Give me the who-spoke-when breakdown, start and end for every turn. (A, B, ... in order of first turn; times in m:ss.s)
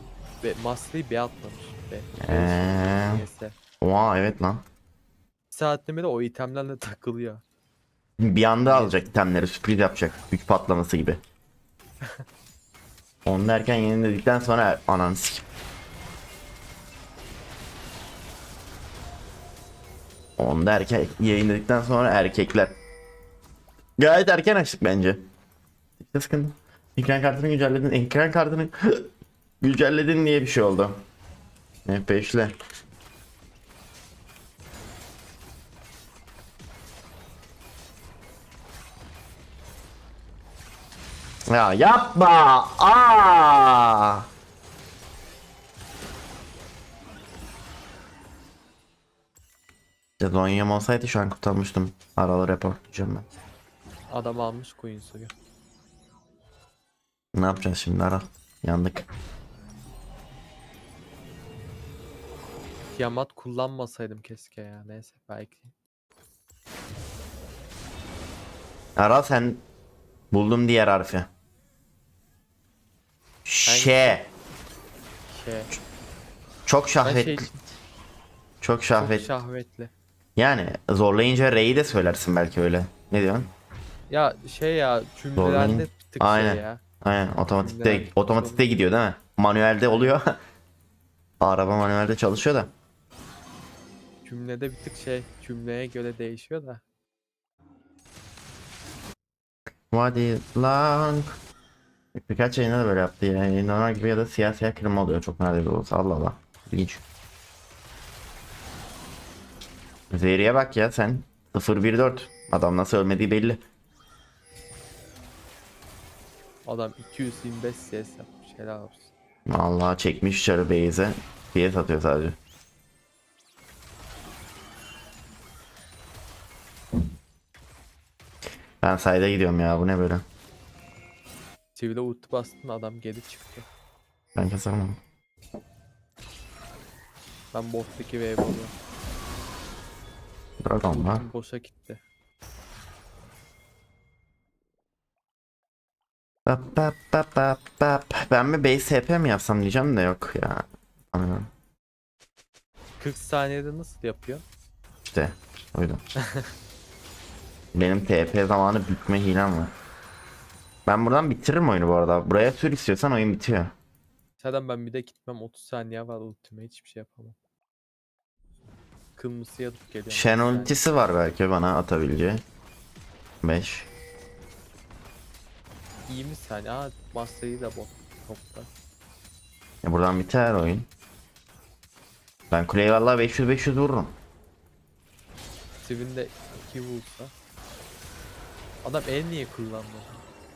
0:00.4-0:03.6 A
0:02.2-0:03.2 B
0:03.8-0:04.6 B
0:05.5-0:07.4 A
0:08.2-0:11.2 B
0:08.6-0:09.0 A
0:13.2-0:15.4 B
0:20.4-0:22.8 B
0:24.0-0:25.3 B
0:26.0-0:29.1 B
0:29.6-0:31.0 B
0:31.9-0:32.6 B
0:41.5-0:44.2 B
0:50.2-0:53.3 B
0:54.1-0:55.3 A
0:57.4-0:59.1 B
1:02.9-1:05.7 A
1:09.0-1:09.6 B
1:10.3-1:11.3 B
1:13.4-1:14.3 B
1:13.6-1:14.2 A
1:15.3-1:15.7 A
1:16.7-1:17.5 B
1:17.0-1:17.7 A
1:18.6-1:19.3 B
1:19.0-1:19.9 A
1:20.4-1:23.5 B
1:24.1-1:26.8 A
1:25.4-1:30.4 B
1:27.5-1:28.6 A
1:29.9-1:30.2 A
1:31.4-1:32.7 B
1:34.2-1:36.8 A
1:39.9-1:41.4 B
1:42.1-1:47.0 B
1:50.1-1:53.6 B
1:56.6-1:59.1 A
1:59.5-2:02.4 B
2:08.8-2:10.2 B
2:11.8-2:13.7 A
2:14.4-2:15.0 B
2:17.5-2:18.7 A
2:20.6-2:21.2 B
2:20.9-2:22.0 A
2:26.5-2:31.5 B
2:33.0-2:34.4 A
2:35.1-2:36.0 B
2:36.2-2:36.5 A
2:37.7-2:39.8 B
2:40.9-2:43.7 B
2:44.4-2:47.4 A
2:49.2-2:50.8 A
2:50.1-2:52.4 B
2:53.4-2:53.9 B
2:56.1-2:58.7 A
2:59.8-3:00.9 B
3:02.5-3:04.2 B
3:05.8-3:07.3 A
3:08.8-3:10.2 A